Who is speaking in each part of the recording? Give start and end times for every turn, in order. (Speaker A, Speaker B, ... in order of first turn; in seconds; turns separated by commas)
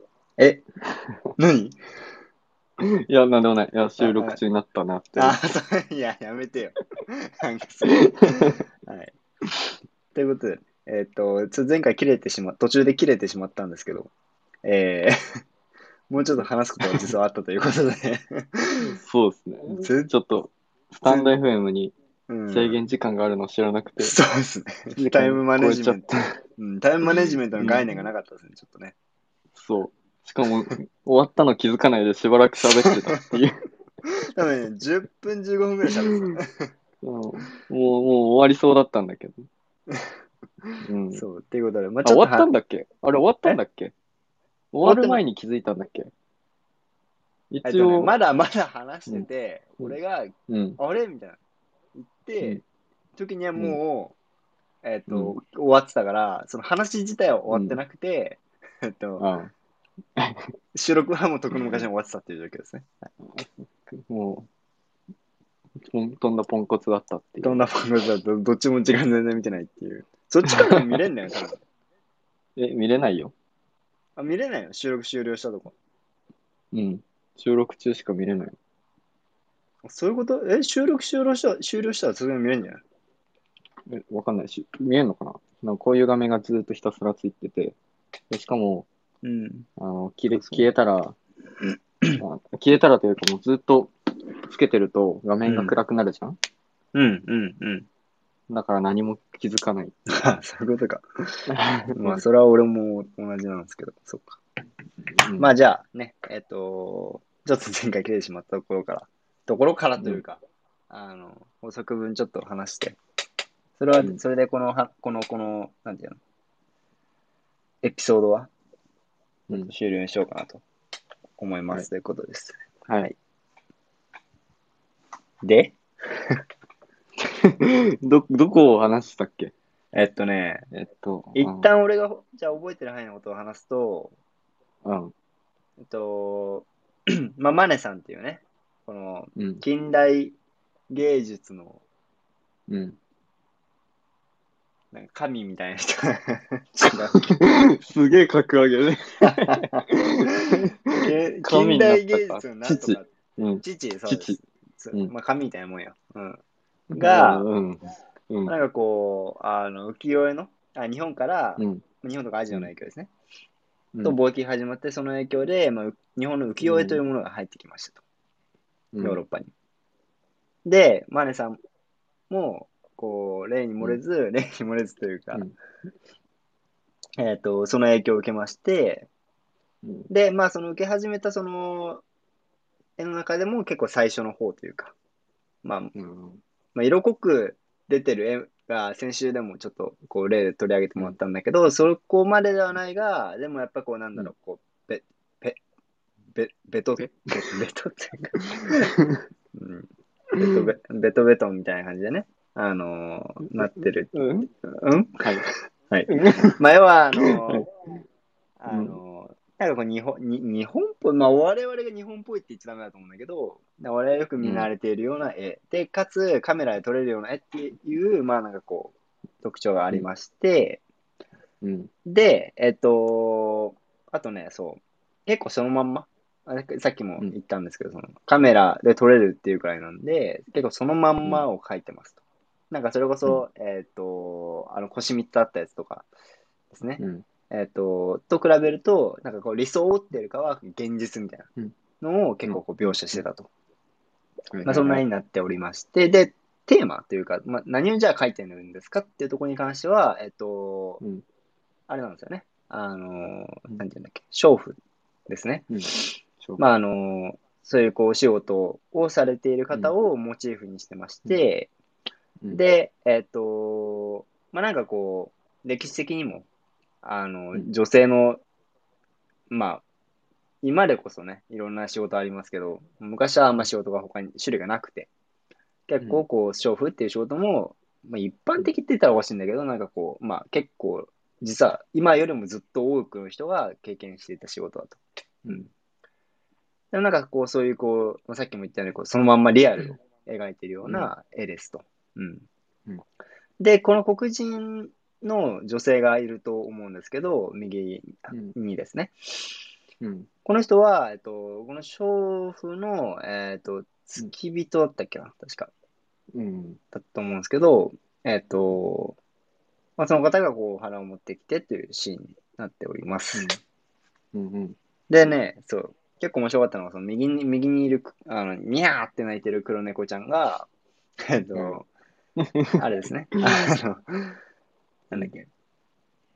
Speaker A: 0.4-0.6, Speaker A: 1.4-1.8, Speaker B: 2.8-5.4, Speaker A: 4.0-4.4, Speaker A: 5.2-9.1, Speaker B: 7.9-8.6, Speaker A: 10.1-14.1, Speaker A: 14.6-15.2, Speaker A: 16.1-19.0, Speaker B: 16.3-17.1, Speaker B: 18.8-21.9, Speaker A: 19.7-20.1, Speaker A: 21.1-21.3, Speaker A: 22.3-22.8, Speaker B: 22.5-24.1, Speaker A: 24.0-28.9, Speaker B: 24.9-26.4, Speaker B: 27.6-28.0, Speaker B: 29.5-33.6, Speaker A: 32.7-33.4, Speaker A: 34.0-36.6, Speaker B: 36.1-36.4, Speaker B: 37.0-39.5, Speaker A: 39.9-42.5, Speaker B: 40.8-41.2, Speaker B: 42.0-43.9, Speaker B: 44.7-46.1, Speaker A: 44.8-45.2, Speaker B: 47.5-48.1, Speaker A: 47.6-51.4, Speaker B: 50.5-50.8, Speaker A: 51.9-52.6, Speaker A: 53.1-54.1, Speaker A: 54.8-59.2, Speaker B: 55.1-55.3, Speaker B: 57.5-57.8, Speaker B: 59.2-59.5, Speaker B: 60.2-60.5, Speaker A: 60.7-62.9, Speaker B: 61.6-61.8, Speaker B: 63.3-64.5, Speaker B: 65.8-67.7, Speaker A: 67.4-71.6, Speaker B: 70.4-71.0, Speaker B: 72.6-73.3, Speaker A: 74.2-75.7, Speaker B: 76.7-78.5, Speaker A: 79.8-82.8, Speaker B: 83.9-87.8, Speaker B: 88.3-88.9, Speaker A: 89.2-89.7, Speaker B: 89.8-91.2, Speaker A: 90.3-90.7, Speaker B: 92.2-96.4, Speaker A: 95.4-95.7, Speaker A: 96.9-97.9, Speaker B: 98.5-100.0, Speaker A: 100.1-101.4, Speaker B: 101.5-102.2, Speaker A: 102.0-104.4, Speaker B: 105.1-105.5, Speaker A: 105.4-113.0, Speaker A: 113.8-116.2, Speaker A: 117.8-118.5, Speaker A: 119.5-120.6, Speaker A: 121.4-123.1, Speaker B: 122.8-123.1, Speaker A: 125.4-126.4, Speaker B: 127.2-129.5, Speaker A: 129.9-130.6, Speaker B: 130.7-131.7, Speaker A: 131.3-134.1, Speaker B: 134.8-135.1, Speaker A: 135.8-140.4, Speaker B: 139.3-139.6, Speaker A: 140.9-141.8, Speaker B: 142.7-143.0, Speaker A: 144.9-147.3, Speaker B: 147.1-154.4, Speaker A: 149.3-149.7, Speaker A: 150.9-153.1, Speaker A: 153.6-156.4, Speaker B: 156.9-158.5, Speaker A: 156.9-157.4, Speaker A: 158.5-163.1, Speaker B: 161.6-161.8, Speaker A: 164.0-168.0, Speaker B: 166.6-167.0, Speaker B: 168.9-169.2, Speaker A: 169.0-169.5, Speaker A: 170.6-171.6, Speaker A: 172.3-175.5, Speaker A: 177.2-179.1, Speaker B: 179.8-180.1, Speaker A: 180.1-182.0, Speaker A: 183.0-184.9, Speaker A: 185.6-185.9, Speaker B: 185.9-186.4, Speaker A: 186.7-195.6, Speaker A: 196.3-198.8, Speaker B: 197.0-197.5, Speaker B: 198.3-199.2, Speaker A: 199.5-199.9, Speaker B: 200.3-200.7, Speaker A: 200.4-205.2, Speaker B: 203.6-204.5, Speaker B: 205.2-205.5, Speaker A: 205.9-207.7, Speaker B: 206.1-206.5, Speaker B: 207.2-208.0, Speaker A: 208.6-220.8, Speaker B: 208.7-209.0, Speaker B: 214.4-214.7, Speaker B: 221.6-221.9, Speaker A: 222.1-232.2, Speaker A: 232.7-236.1, Speaker A: 236.7-241.5, Speaker B: 237.0-237.2, Speaker A: 242.0-243.5, Speaker B: 244.5-245.0, Speaker A: 244.6-251.0, Speaker A: 251.9-256.0, Speaker B: 255.7-256.6, Speaker A: 256.6-261.7, Speaker A: 262.5-266.5, Speaker A: 267.0-268.4, Speaker A: 269.5-269.8, Speaker A: 270.6-275.1, Speaker A: 275.9-285.6, Speaker A: 286.9-292.4, Speaker A: 293.6-299.1, Speaker B: 298.3-298.5, Speaker B: 300.0-300.3, Speaker A: 300.4-305.7, Speaker B: 306.3-306.8, Speaker A: 306.9-309.2, Speaker A: 310.0-313.5, Speaker B: 313.3-313.6, Speaker B: 314.3-314.8, Speaker A: 315.1-320.7, Speaker A: 321.3-321.9, Speaker B: 321.5-321.8, Speaker B: 322.4-322.8, Speaker A: 322.8-324.3, Speaker A: 325.1-325.5